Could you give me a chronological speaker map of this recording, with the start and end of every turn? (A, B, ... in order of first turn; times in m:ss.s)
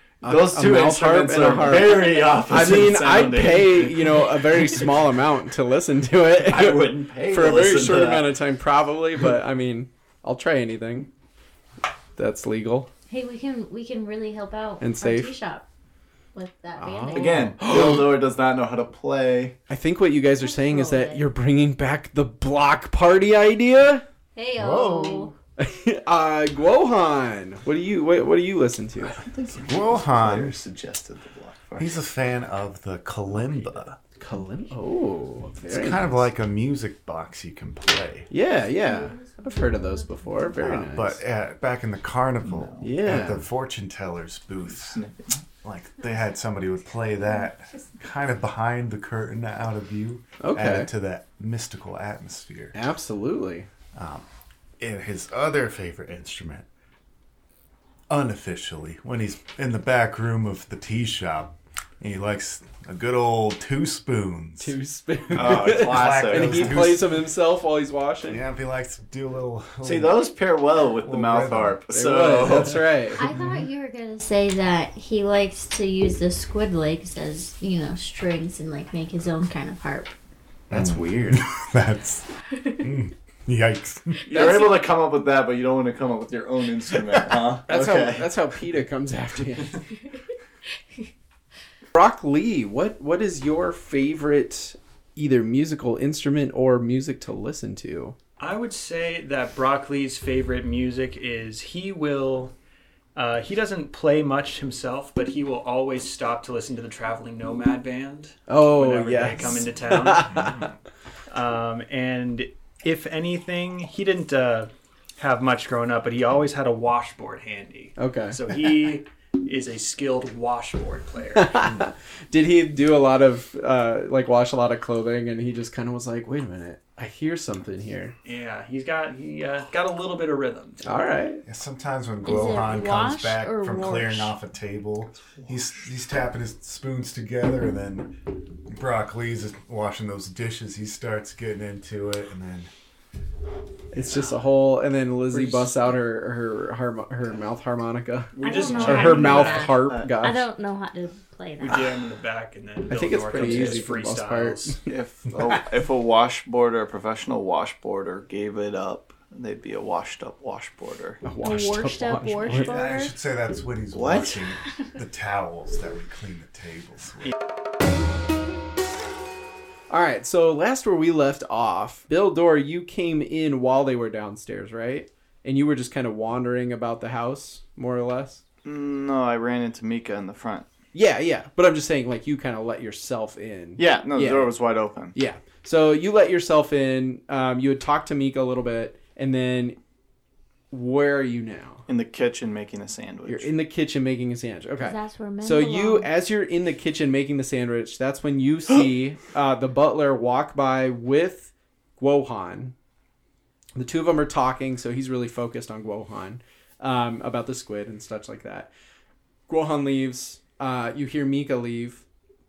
0:00.2-0:04.2 A
0:00.2-0:11.1 B
0:06.3-0:08.3 A
0:12.2-0:12.9 B
0:13.1-0:15.7 C
0:14.8-0:15.3 B
0:16.3-0:17.6 C
0:16.7-0:18.2 B
0:17.1-0:19.6 A
0:19.7-0:24.0 B
0:20.4-0:21.2 C
0:24.3-0:25.3 C
0:24.5-0:25.3 D
0:25.6-0:29.2 B
0:29.0-0:32.0 A
0:29.6-0:30.6 D
0:31.8-0:34.0 D
0:33.3-0:33.9 A
0:34.2-0:36.1 B
0:35.6-0:38.3 D
0:38.3-0:41.2 B
0:38.8-0:40.5 C
0:40.5-0:45.0 D
0:42.4-0:43.1 A
0:42.8-0:43.4 B
0:44.7-0:45.4 A
0:45.6-0:52.8 D
0:50.4-0:50.9 B
0:52.7-0:53.7 B
0:53.9-0:54.2 D
0:54.8-0:56.6 D
0:58.1-1:04.7 D
1:04.6-1:08.4 B
1:05.3-1:07.2 D
1:05.3-1:06.9 A
1:08.2-1:10.2 D
1:09.8-1:12.9 A
1:10.8-1:11.8 D
1:11.9-1:13.3 B
1:13.2-1:20.1 C
1:13.3-1:13.6 D
1:20.7-1:21.5 B
1:20.7-1:22.3 D
1:22.5-1:22.9 C
1:22.8-1:24.5 D
1:24.3-1:28.3 A
1:24.3-1:24.7 B
1:26.9-1:27.6 D
1:27.7-1:29.8 B
1:31.9-1:38.2 B
1:38.4-1:42.5 E
1:43.1-1:50.5 E
1:48.5-1:50.6 B
1:50.3-1:50.6 D
1:51.3-2:01.6 E
1:58.0-1:58.4 B
2:01.4-2:08.1 B
2:08.2-2:10.8 E
2:10.8-2:11.4 B
2:11.4-2:22.7 D
2:12.2-2:14.3 C
2:23.9-2:30.4 B
2:28.4-2:30.2 A
2:28.4-2:29.7 E
2:28.4-2:31.9 C
2:31.6-2:34.8 E
2:32.9-2:34.9 B
2:33.4-2:33.8 A
2:34.8-2:41.2 A
2:41.2-2:42.8 B
2:41.4-2:43.1 C
2:42.5-2:47.3 D
2:43.9-2:44.4 A
2:49.9-2:58.4 B
2:58.6-3:00.7 A
3:00.9-3:04.5 B
3:03.8-3:05.1 A
3:05.1-3:09.8 B
3:10.7-3:11.8 B
3:11.9-3:13.5 A
3:13.2-3:22.7 B
3:14.8-3:16.1 C
3:23.8-3:28.7 B
3:29.5-3:32.0 B